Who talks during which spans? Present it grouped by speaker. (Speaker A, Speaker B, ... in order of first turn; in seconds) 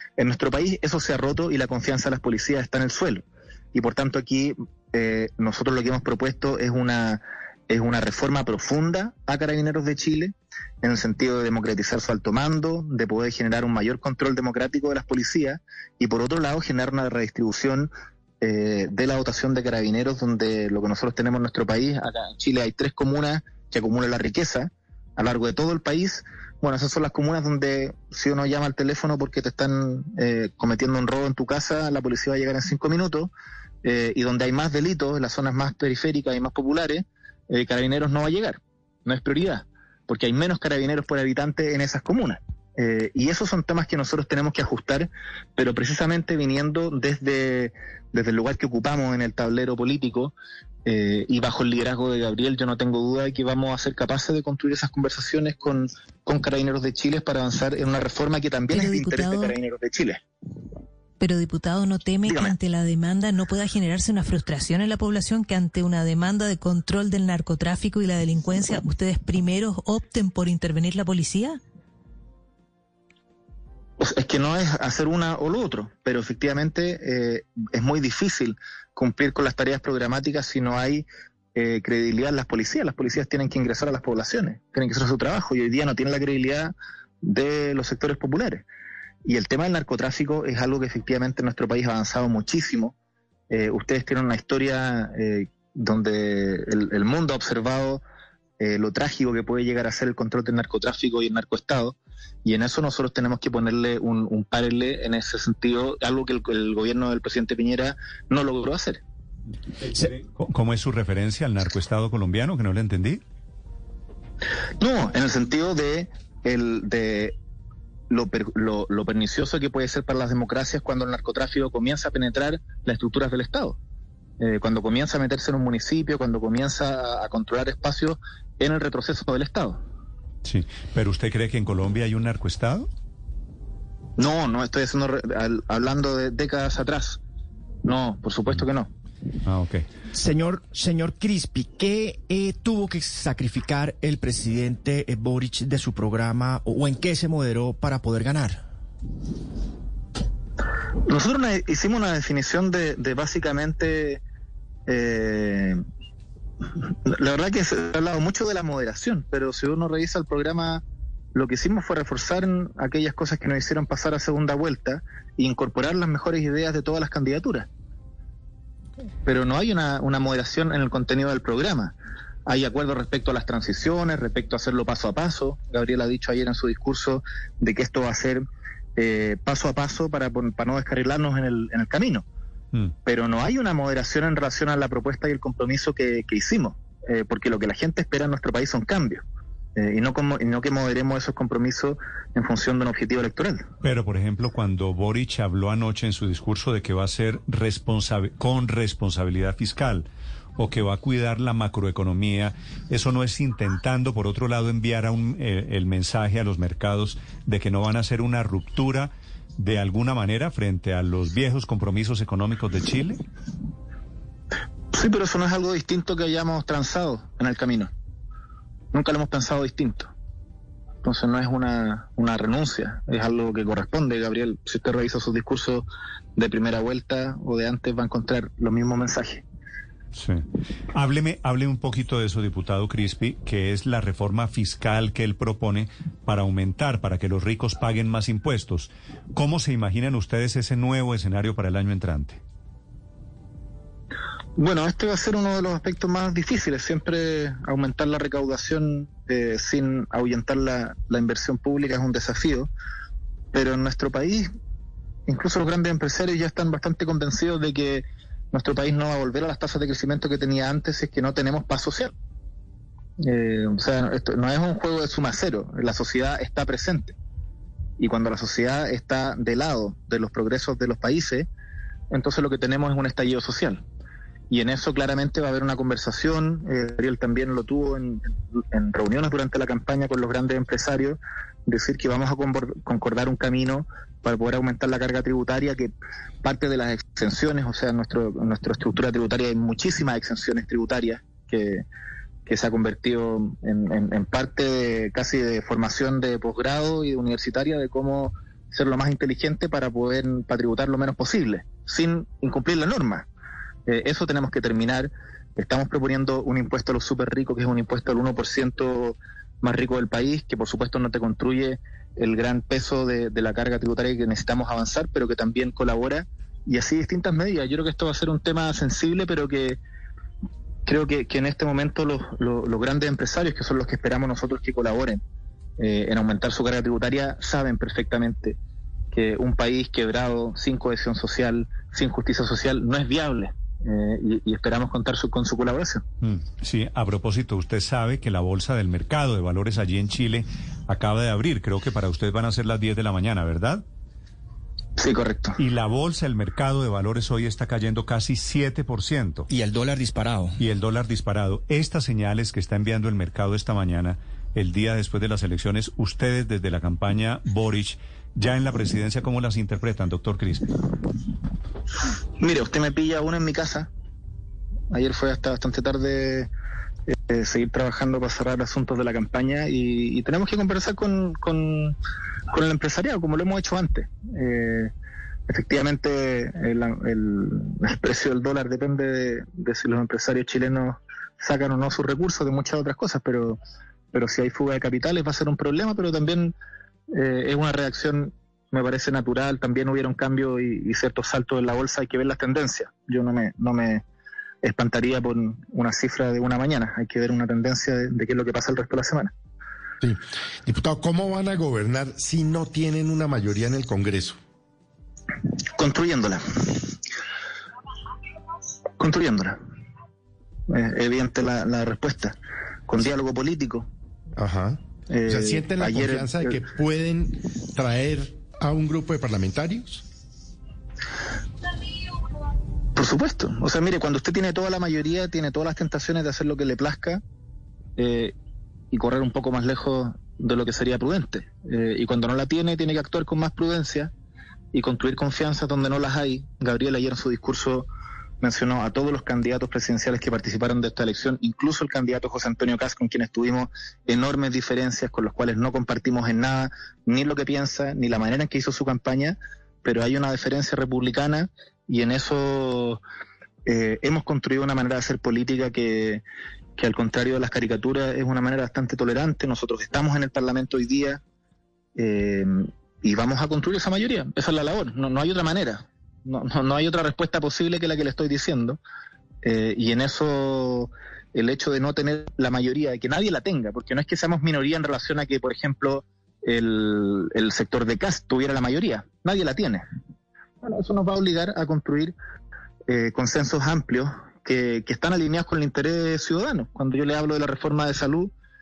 Speaker A: 0.2-33.3, 33.8-50.3, 50.8-60.2, 62.2-62.5, 74.0-88.6, 89.2-92.9, 93.5-98.0, 98.6-109.0, 114.8-117.3, 118.1-123.8, 124.4-129.8, 134.2-137.2, 137.8-138.9, 151.1-154.2, 154.9-155.8, 157.0-160.8, 161.3-167.7, 169.2-171.9, 172.4-178.4, 178.9-182.2, 183.1-189.2, 189.8-193.6, 214.9-217.9, 218.9-220.1, 221.0-229.4, 244.6-252.7, 253.5-254.5, 255.3-262.1, 263.2-267.1, 268.0-271.5, 272.1-273.8, 274.5-285.9, 286.4-291.8, 292.4-303.3, 303.9-319.8, 320.9-325.2, 325.8-328.6, 329.1-336.0, 345.0-345.6, 362.4-363.9, 364.9-366.5, 367.1-371.9, 372.5-374.9, 375.5-383.6, 384.1-386.5, 387.1-394.0, 394.6-399.3, 405.8-406.9, 409.0-409.6, 410.7-412.4, 412.9-413.9, 415.1-416.4, 422.9-427.2, 428.0-428.3, 428.9-434.1, 434.7-437.9, 438.4-453.0, 453.6-456.2, 456.8-461.2, 461.9-468.8, 469.4-479.8, 480.6-482.1, 482.9-488.3
Speaker B: 58.7-59.5, 61.2-71.6
Speaker C: 109.8-113.2, 130.4-132.9, 139.4-139.8, 193.8-213.2, 230.1-242.4, 336.2-343.8, 345.6-349.5, 350.6-360.7
Speaker D: 140.1-148.6, 349.5-350.6
Speaker E: 400.0-404.4, 414.4-420.0